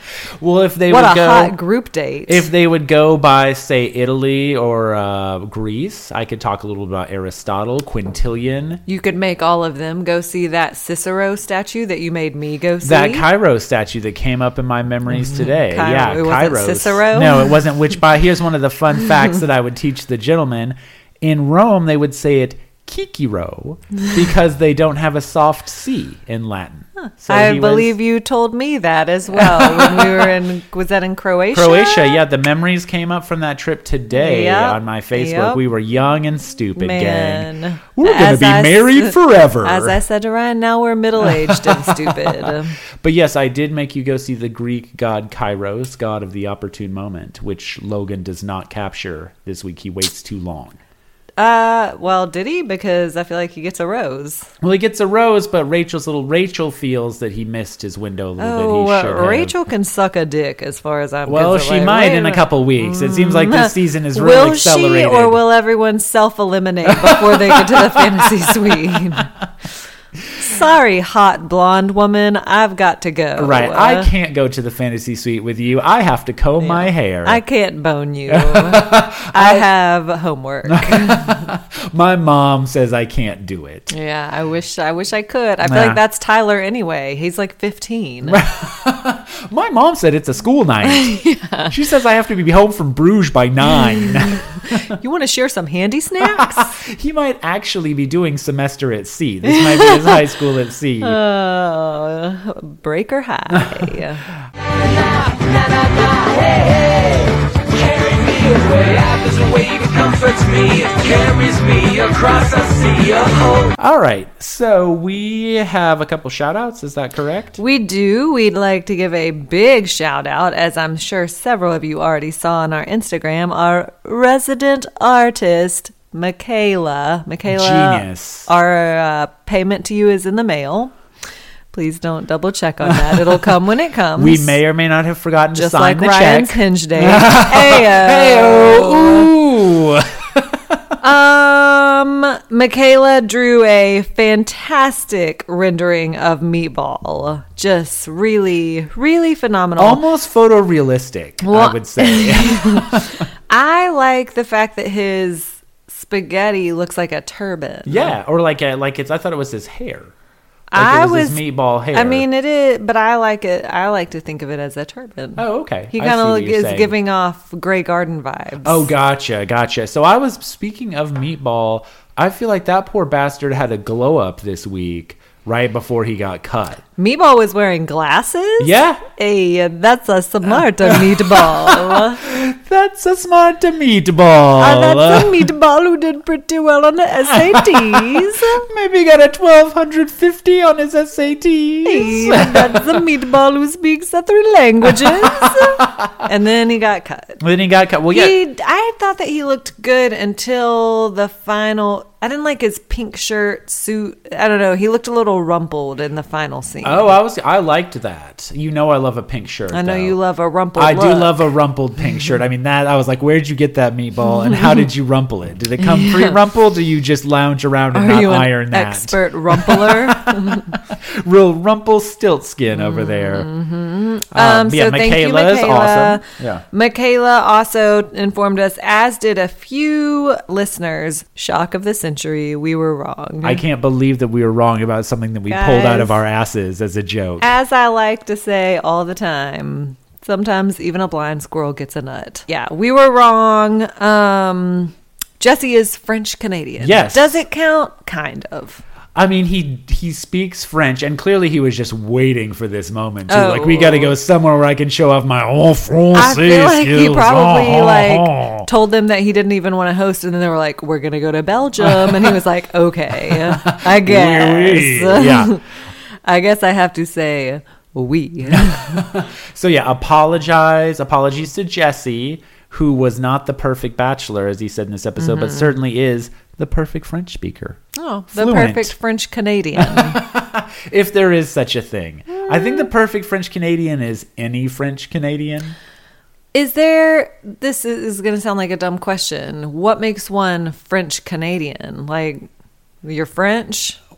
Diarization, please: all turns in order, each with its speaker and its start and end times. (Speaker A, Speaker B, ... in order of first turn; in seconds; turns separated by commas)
Speaker A: 0.4-1.6, Speaker B: 0.9-2.5, Speaker A: 2.3-8.8, Speaker B: 8.9-13.3, Speaker A: 12.8-27.9, Speaker B: 15.1-17.6, Speaker B: 27.0-32.2, Speaker A: 29.3-30.3, Speaker A: 31.5-40.0, Speaker B: 34.1-35.6, Speaker B: 36.8-42.8, Speaker A: 41.2-50.8, Speaker B: 51.4-54.5, Speaker A: 54.6-59.5, Speaker B: 58.4-69.3, Speaker A: 61.2-65.4, Speaker A: 66.9-69.2, Speaker B: 70.4-74.1, Speaker A: 73.4-77.4, Speaker B: 76.6-81.5, Speaker A: 78.3-79.7, Speaker A: 80.7-83.9, Speaker B: 83.9-88.4, Speaker A: 85.6-86.0, Speaker A: 88.2-91.1, Speaker B: 90.9-91.8, Speaker A: 91.7-94.9, Speaker B: 94.0-96.8, Speaker A: 96.2-101.2, Speaker B: 99.5-100.2, Speaker B: 101.0-104.2, Speaker A: 103.5-103.8, Speaker C: 104.8-113.7, Speaker A: 113.8-117.6, Speaker B: 117.6-130.9, Speaker A: 127.5-128.5, Speaker B: 131.7-134.6, Speaker A: 132.8-133.5, Speaker A: 134.1-140.8, Speaker B: 135.6-139.3, Speaker B: 141.0-150.0, Speaker A: 149.8-153.2, Speaker B: 151.4-158.1, Speaker A: 157.9-160.1, Speaker B: 160.7-168.9, Speaker A: 160.8-162.3, Speaker A: 165.4-166.9, Speaker A: 168.6-176.8, Speaker B: 177.0-182.2, Speaker A: 178.6-179.0, Speaker A: 180.8-185.5, Speaker B: 184.6-188.6, Speaker A: 187.3-193.1, Speaker B: 191.8-197.4, Speaker A: 194.8-196.1, Speaker A: 197.4-198.4, Speaker B: 198.1-207.2, Speaker A: 206.8-210.2, Speaker B: 209.7-211.4, Speaker A: 210.8-223.5, Speaker B: 214.3-214.9, Speaker B: 215.8-216.4, Speaker B: 217.9-220.8, Speaker B: 222.7-233.6, Speaker A: 224.3-226.6, Speaker A: 233.4-237.5, Speaker B: 235.5-236.2, Speaker B: 237.4-248.8, Speaker A: 246.8-247.4, Speaker A: 249.1-258.7, Speaker B: 253.3-254.1, Speaker B: 256.1-265.6, Speaker A: 261.8-262.4, Speaker A: 263.2-265.6, Speaker B: 266.2-269.0, Speaker A: 268.4-277.8, Speaker B: 275.2-275.7, Speaker B: 277.9-280.2, Speaker A: 278.3-278.9, Speaker A: 279.8-285.8, Speaker B: 282.3-282.8, Speaker B: 286.5-292.4, Speaker B: 293.0-294.0